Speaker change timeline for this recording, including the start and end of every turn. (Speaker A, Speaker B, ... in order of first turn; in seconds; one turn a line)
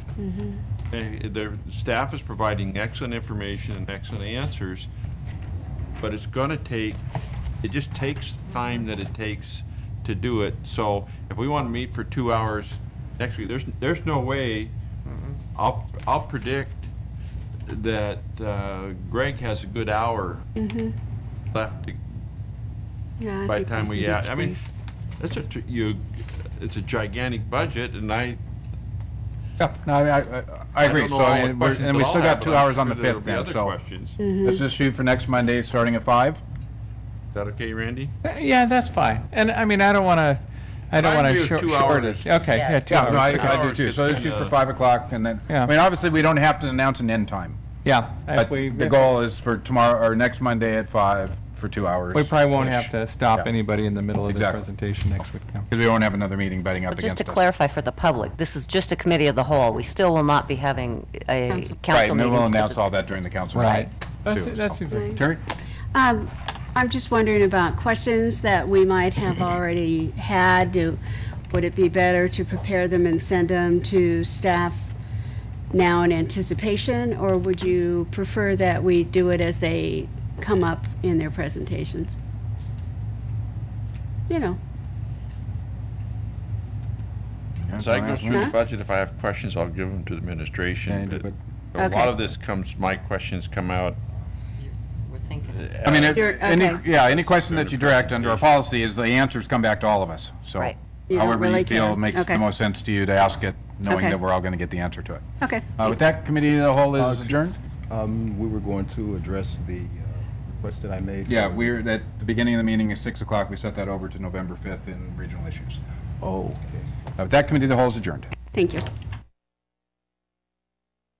Speaker A: 0.2-0.6
Speaker B: 0.9-4.9
Speaker B: 6.0-7.0
Speaker B: 7.6-14.7
Speaker B: 15.5-16.9
Speaker B: 17.7-20.4
Speaker A: 20.6-20.9
Speaker B: 21.5-22.0
Speaker A: 23.2-24.6
Speaker B: 23.4-24.6
Speaker B: 25.2-28.4
Speaker C: 29.6-33.8
Speaker B: 30.8-34.2
Speaker A: 34.2-34.6
Speaker C: 34.4-36.4
Speaker B: 37.3-38.1
Speaker D: 38.2-43.6
Speaker B: 40.9-42.3
Speaker E: 42.4-43.1
Speaker C: 42.9-47.6
Speaker B: 42.9-44.5
Speaker D: 47.8-49.1
Speaker C: 48.3-53.5
Speaker D: 52.1-55.7
Speaker C: 54.2-54.6
Speaker C: 55.7-57.4
Speaker E: 56.9-63.9
Speaker A: 61.5-61.8
Speaker C: 61.8-65.4
Speaker D: 63.5-65.2
Speaker A: 64.9-65.2
Speaker A: 65.9-71.0
Speaker A: 71.5-74.9
Speaker A: 75.7-82.2
Speaker A: 84.3-84.6
Speaker C: 87.6-88.5
Speaker B: 87.7-94.0
Speaker C: 90.9-91.3
Speaker A: 91.8-92.1
Speaker E: 94.9-95.7
Speaker B: 95.5-98.5
Speaker C: 95.8-105.2
Speaker A: 96.1-96.8
Speaker A: 101.1-102.4
Speaker A: 103.9-104.2
Speaker A: 105.4-105.7
Speaker C: 105.8-107.5
Speaker F: 106.9-111.8
Speaker C: 111.3-115.8
Speaker F: 116.2-116.9
Speaker C: 117.2-118.3
Speaker A: 118.5-118.8